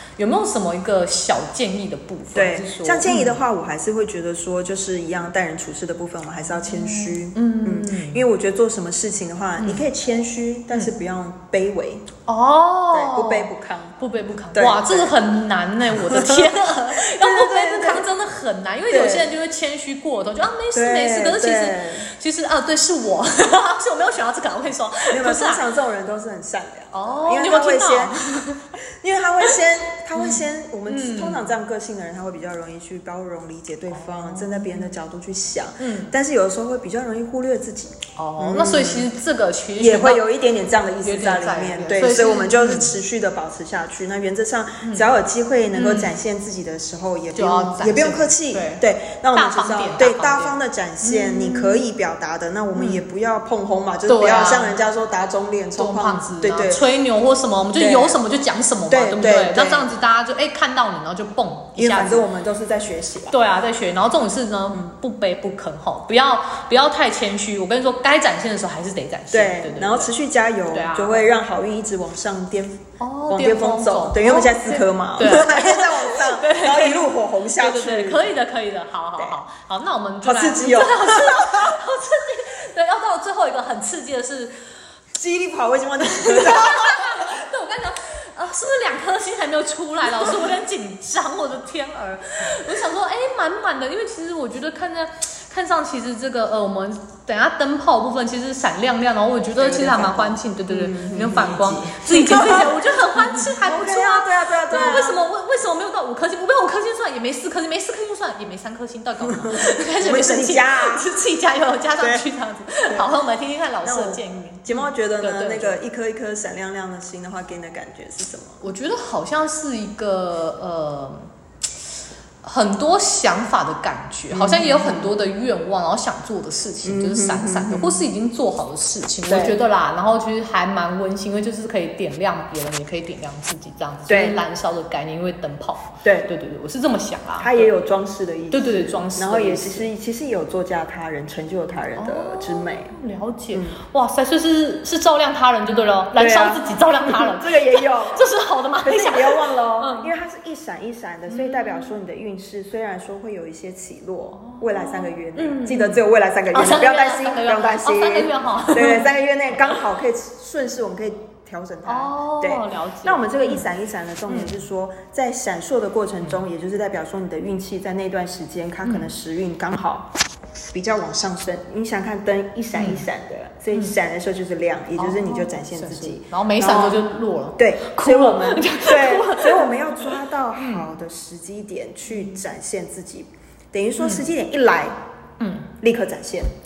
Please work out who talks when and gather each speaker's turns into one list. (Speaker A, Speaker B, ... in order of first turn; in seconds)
Speaker A: 0.2-3.4, 6.6-8.2, 9.6-9.8, 12.3-25.6, 26.9-28.7, 30.1-31.4, 33.9-34.9, 35.8-36.1, 38.2-40.2, 41.0-43.0, 44.8-45.1, 45.7-46.1, 47.3-48.8, 49.3-51.8, 52.7-53.0, 54.1-54.8, 55.8-62.2, 63.3-70.1, 70.7-71.3, 73.0-84.5, 86.2-115.8, 118.6-121.3, 122.4-137.7, 138.5-139.9, 141.9-150.1, 151.3-151.9, 154.4-156.0, 156.5-159.1, 161.8-163.6, 168.8-169.1, 172.8-173.1, 174.9-180.8, 184.0-184.2, 185.4-185.7
Speaker B: 2.3-12.1, 12.9-14.0, 14.5-15.2, 15.9-18.1, 18.9-19.3, 20.7-22.1, 25.1-39.1, 39.8-56.9, 57.8-58.2, 58.9-59.9, 61.8-63.4, 69.3-78.3, 80.2-81.7, 85.1-87.3, 99.5-105.2, 109.3-111.1, 112.0-112.2, 113.8-118.6, 124.3-125.1, 126.8-128.0, 129.2-129.6, 134.1-134.4, 136.0-136.3, 137.4-142.9, 143.5-143.8, 146.1-148.2, 148.8-170.1, 170.7-177.0, 177.6-185.0, 185.8-186.5